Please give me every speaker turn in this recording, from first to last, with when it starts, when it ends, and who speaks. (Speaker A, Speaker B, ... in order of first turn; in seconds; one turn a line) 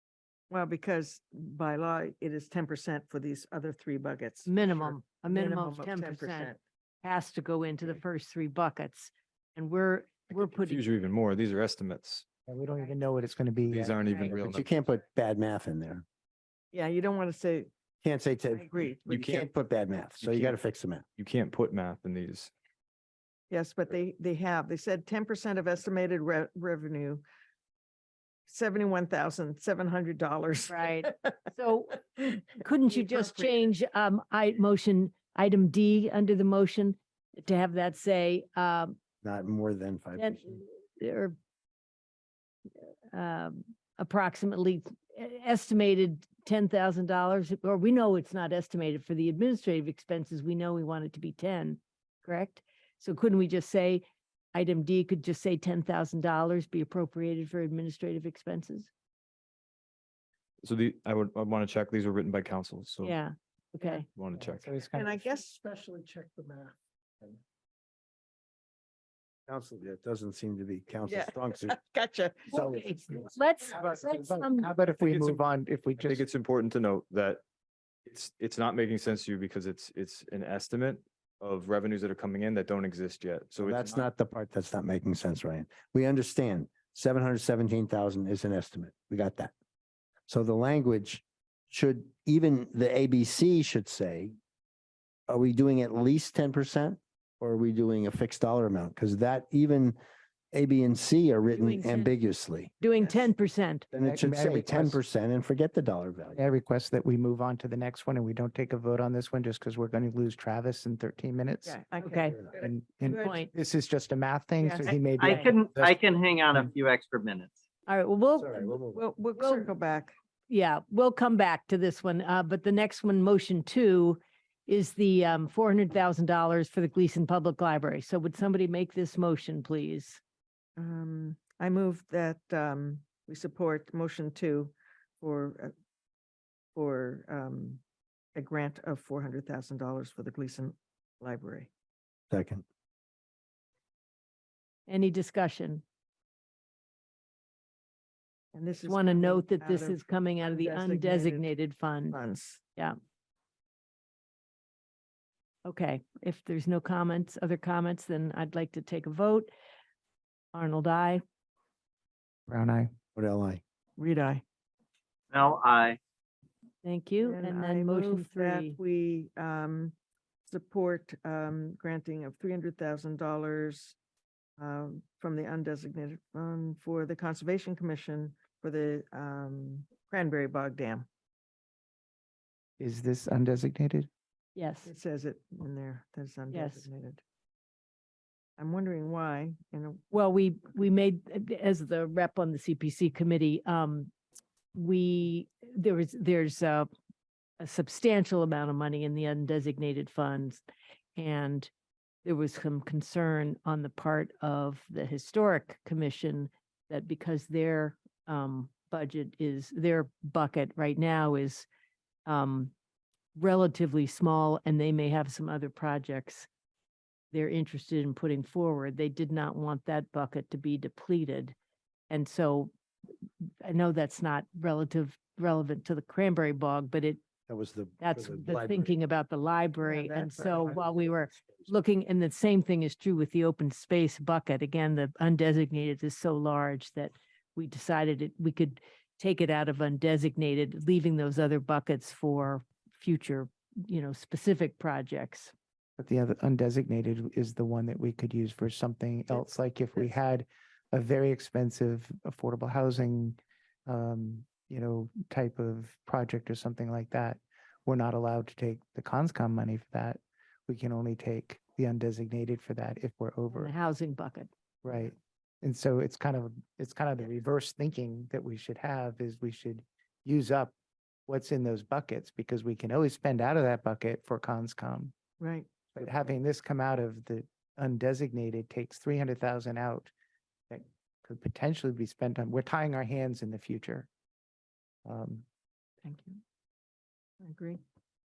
Speaker A: 0.5-6.6
Speaker B: 4.5-10.8
Speaker C: 10.3-12.2
Speaker D: 12.5-14.4
Speaker C: 13.6-14.8
Speaker B: 14.0-14.3
Speaker E: 14.4-16.0
Speaker A: 16.7-17.7
Speaker E: 18.0-21.0
Speaker A: 18.5-19.2
Speaker C: 19.1-19.5
Speaker C: 20.2-20.6
Speaker C: 21.2-22.5
Speaker A: 23.5-27.2
Speaker A: 28.4-31.3
Speaker B: 30.7-39.0
Speaker A: 32.8-33.6
Speaker E: 39.2-40.5
Speaker B: 40.1-41.3
Speaker B: 43.1-58.9
Speaker C: 60.6-63.1
Speaker B: 63.0-64.0
Speaker C: 64.1-64.8
Speaker D: 64.3-65.2
Speaker A: 64.9-66.5
Speaker D: 65.8-66.3
Speaker E: 69.5-71.8
Speaker A: 71.0-72.6
Speaker E: 72.5-72.9
Speaker B: 72.6-74.7
Speaker D: 73.7-76.2
Speaker C: 75.0-75.4
Speaker C: 76.0-77.4
Speaker C: 78.0-84.1
Speaker E: 83.6-89.5
Speaker E: 90.3-94.3
Speaker E: 95.3-100.0
Speaker E: 100.5-102.7
Speaker B: 101.5-102.1
Speaker B: 102.8-103.9
Speaker A: 102.9-103.3
Speaker E: 103.9-106.4
Speaker D: 103.9-105.0
Speaker D: 106.3-111.8
Speaker A: 111.6-113.4
Speaker B: 112.0-112.4
Speaker D: 112.6-116.0
Speaker B: 113.1-113.5
Speaker A: 114.6-115.0
Speaker F: 115.1-117.5
Speaker B: 117.9-118.8
Speaker E: 118.4-119.0
Speaker A: 118.9-120.2
Speaker B: 119.4-119.7
Speaker B: 120.5-130.2
Speaker A: 130.8-135.7
Speaker A: 136.7-137.8
Speaker A: 138.3-141.7
Speaker E: 142.3-142.6
Speaker B: 144.9-145.8
Speaker A: 148.5-151.5
Speaker B: 148.8-152.2
Speaker A: 152.1-152.6
Speaker B: 155.6-159.5
Speaker B: 160.5-161.2
Speaker D: 162.5-162.9
Speaker E: 163.1-163.6
Speaker A: 164.0-164.4
Speaker F: 165.3-166.0
Speaker B: 166.8-168.8
Speaker A: 167.2-169.9
Speaker A: 170.5-174.0
Speaker A: 174.6-181.1
Speaker D: 182.8-184.1
Speaker B: 184.6-184.9
Speaker A: 184.8-187.2
Speaker B: 186.5-186.9
Speaker A: 188.6-190.0
Speaker B: 190.1-194.1
Speaker B: 194.7-196.9
Speaker B: 197.6-200.6
Speaker B: 201.2-201.7
Speaker B: 202.2-211.7
Speaker B: 212.2-212.7
Speaker B: 213.3-216.5
Speaker B: 217.3-221.5
Speaker B: 222.1-222.7
Speaker B: 223.6-227.2
Speaker E: 227.5-228.9
Speaker B: 228.0-245.5
Speaker A: 229.8-230.9
Speaker D: 246.0-263.7
Speaker A: 249.4-250.1
Speaker B: 263.5-264.5
Speaker D: 264.8-270.7
Speaker D: 271.3-275.1
Speaker A: 275.4-275.7
Speaker D: 275.9-280.1
Speaker D: 280.7-284.1
Speaker D: 285.1-285.4
Speaker A: 287.4-287.8